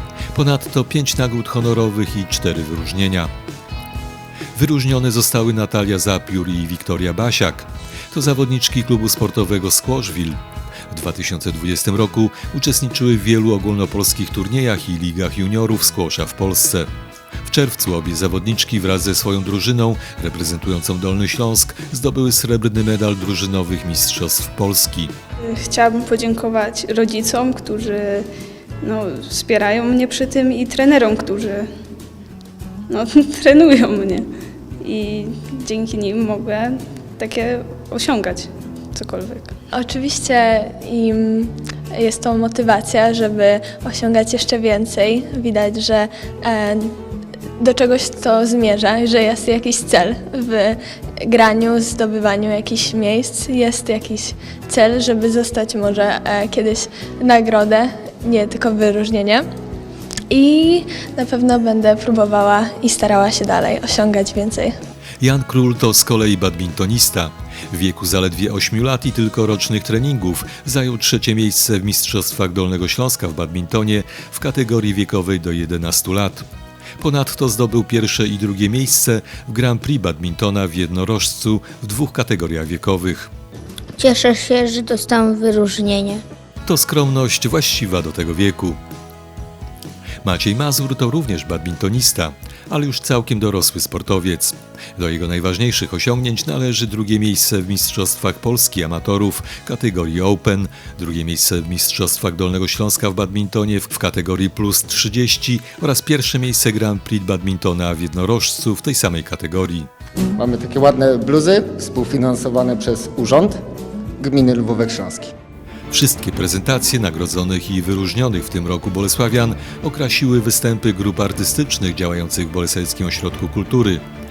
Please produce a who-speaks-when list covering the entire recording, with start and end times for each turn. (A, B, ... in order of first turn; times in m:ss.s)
0:00.3-0:03.3 A
0:04.5-0:10.4 A
0:10.9-0:16.9 A
0:17.4-0:25.1 A
0:25.4-0:28.3 B
0:28.8-0:31.7 B
0:32.9-0:34.3 B
0:34.8-0:39.5 B
0:39.7-0:46.9 C
0:47.6-0:59.4 C
1:00.3-1:04.7 C
1:05.2-1:16.5 A
1:17.0-1:23.3 A
1:24.0-1:26.2 D
1:26.6-1:28.8 A
1:30.2-1:49.9 A
1:50.4-1:53.6 E
1:54.2-1:55.3 E
1:55.9-2:04.0 A